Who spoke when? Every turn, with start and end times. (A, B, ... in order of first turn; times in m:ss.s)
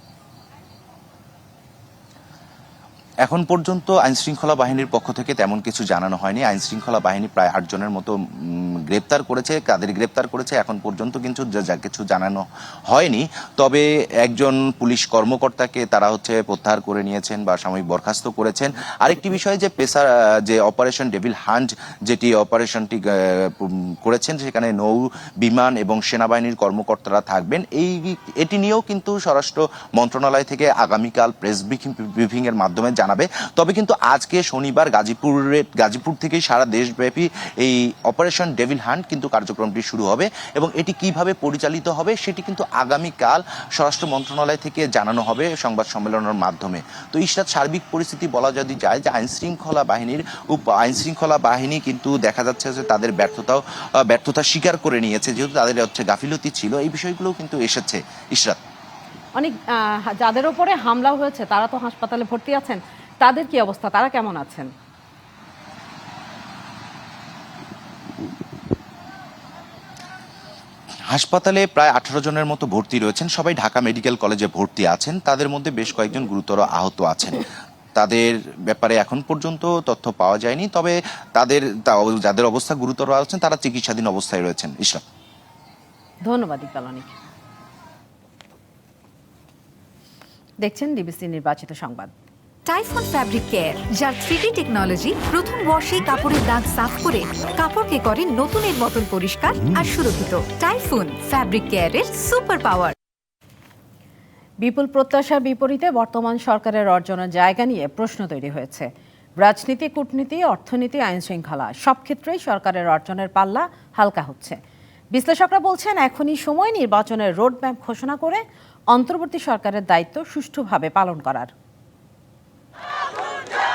0:03.2-0:58.6 A
1:00.1-1:04.7 B
1:11.1-1:17.4 A
1:18.0-1:25.0 A
1:26.2-1:27.1 B
1:30.6-1:32.1 B
1:32.6-1:42.9 C
1:44.6-1:48.9 B
1:49.4-1:54.6 B
1:55.1-1:58.4 B
1:58.9-2:01.5 B